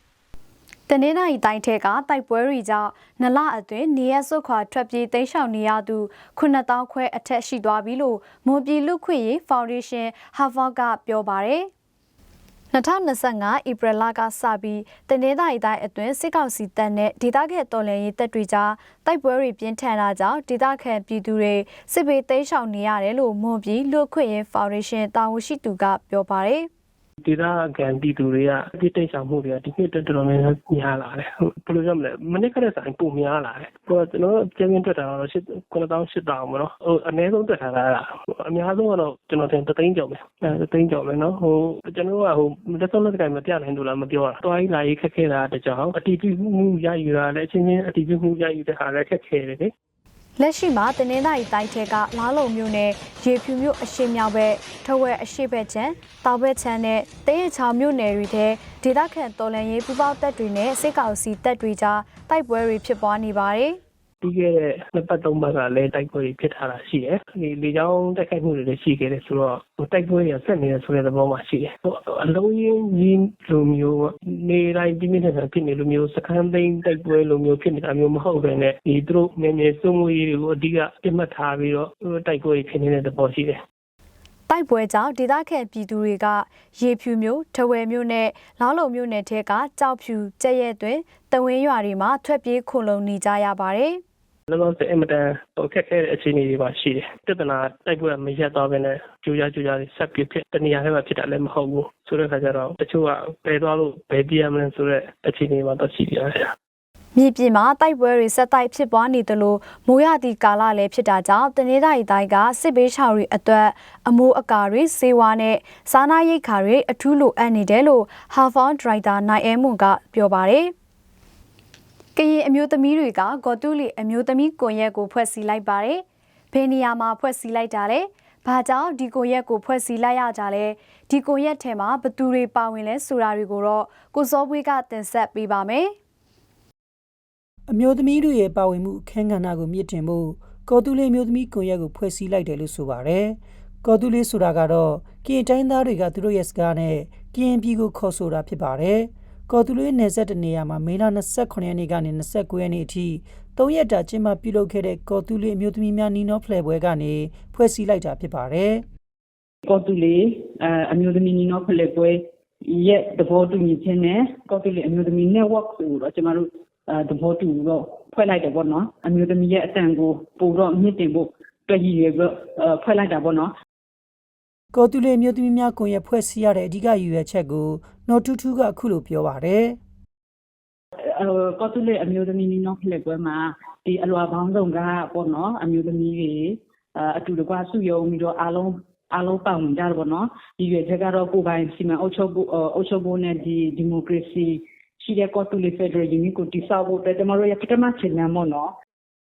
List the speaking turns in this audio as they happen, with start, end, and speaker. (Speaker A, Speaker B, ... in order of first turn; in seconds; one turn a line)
Speaker A: 0.9-11.7
Speaker A: 12.7-26.7
Speaker B: 27.2-49.7
Speaker A: 50.4-63.8
Speaker B: 64.2-83.6
Speaker A: 84.5-94.0
Speaker B: 94.5-106.5
Speaker A: 107.2-120.7
Speaker A: 122.2-135.9
Speaker C: 137.7-158.8
Speaker D: 159.7-162.2
Speaker D: 162.8-173.5
Speaker C: 174.7-179.8
Speaker D: 181.2-186.5
Speaker D: 187.1-198.7